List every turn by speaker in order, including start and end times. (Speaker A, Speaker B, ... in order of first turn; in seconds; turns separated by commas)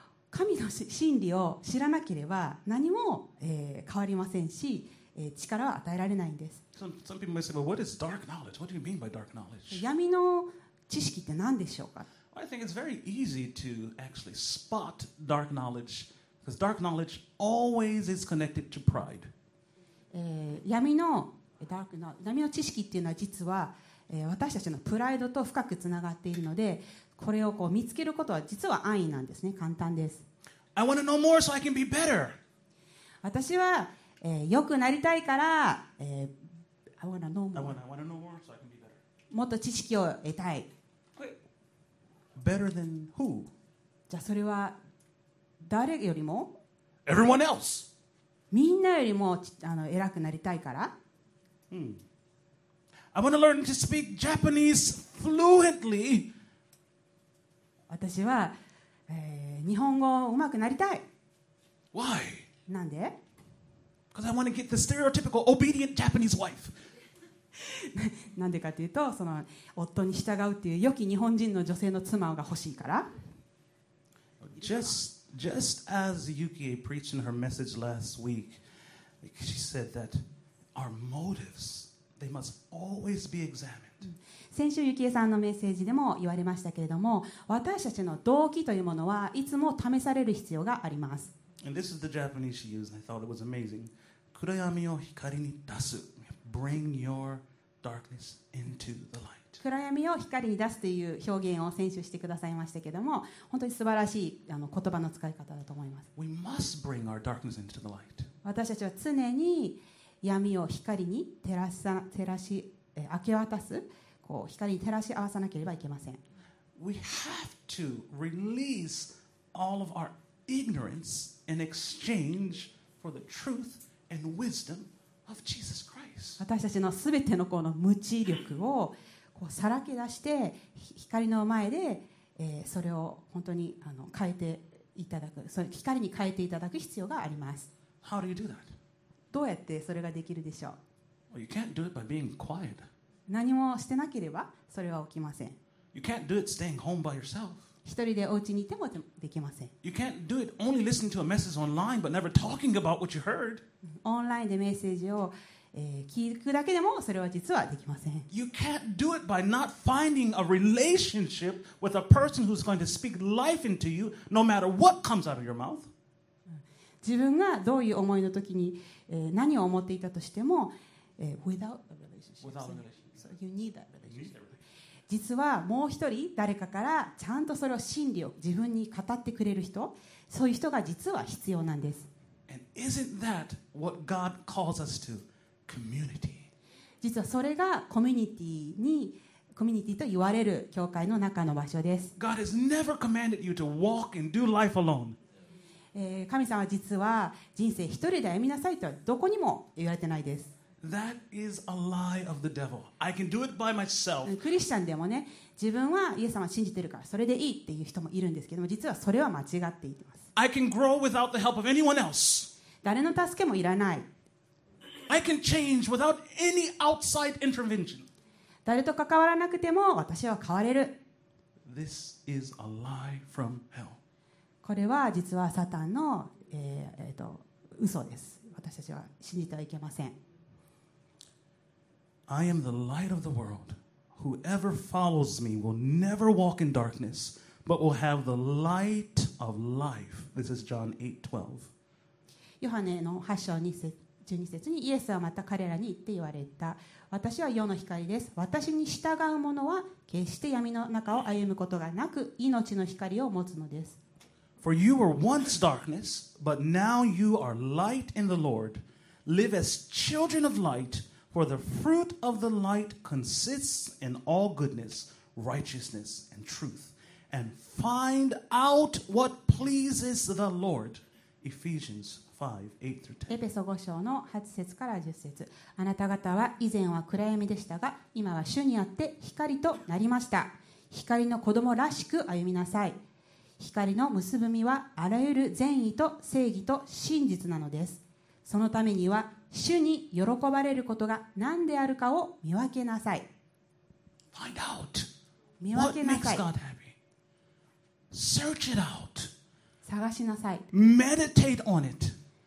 Speaker A: 0.3-6.6, Speaker B: 6.7-9.8, Speaker A: 9.7-12.1, Speaker B: 12.3-19.3, Speaker A: 20.1-30.2, Speaker B: 30.7-32.4, Speaker A: 33.2-36.3, Speaker A: 37.0-37.8, Speaker B: 37.5-39.0, Speaker A: 39.3-40.7, Speaker B: 42.4-43.5, Speaker A: 44.1-44.8, Speaker A: 45.6-46.5, Speaker B: 47.0-47.9, Speaker A: 48.5-50.9, Speaker B: 51.7-52.0, Speaker B: 53.1-56.3, Speaker A: 57.9-58.5, Speaker A: 59.1-61.0, Speaker B: 61.9-62.5, Speaker A: 62.7-63.1, Speaker B: 64.1-66.8, Speaker A: 67.5-73.1, Speaker B: 74.4-78.6, Speaker B: 79.2-84.1, Speaker A: 84.1-91.3, Speaker B: 91.6-99.6, Speaker A: 99.6-106.1, Speaker B: 106.2-108.3, Speaker A: 108.4-116.2, Speaker B: 116.8-126.4, Speaker A: 126.4-137.7, Speaker B: 138.0-138.7, Speaker A: 139.3-140.8, Speaker B: 141.3-142.9, Speaker A: 143.3-145.6, Speaker B: 145.9-147.7, Speaker A: 147.8-149.7, Speaker B: 149.8-153.6, Speaker A: 154.0-158.3, Speaker B: 158.3-165.9, Speaker A: 167.0-174.4, Speaker B: 172.4-173.2, Speaker B: 174.1-174.6, Speaker A: 175.1-182.1, Speaker B: 182.5-186.5, Speaker A: 187.0-192.2, Speaker B: 192.2-195.2, Speaker A: 195.9-200.5, Speaker B: 200.8-204.4, Speaker A: 204.2-210.3, Speaker B: 210.3-212.5, Speaker A: 212.8-214.1, Speaker B: 215.0-218.1, Speaker A: 218.6-220.9, Speaker B: 221.6-224.0, Speaker A: 224.6-230.1, Speaker B: 232.3-241.7, Speaker A: 242.6-254.0, Speaker B: 254.6-273.4, Speaker A: 273.3-283.0, Speaker A: 283.6-293.3, Speaker B: 294.3-295.1, Speaker A: 295.6-296.4, Speaker B: 295.7-296.9, Speaker B: 298.1-299.3, Speaker A: 299.8-300.7, Speaker B: 300.7-302.2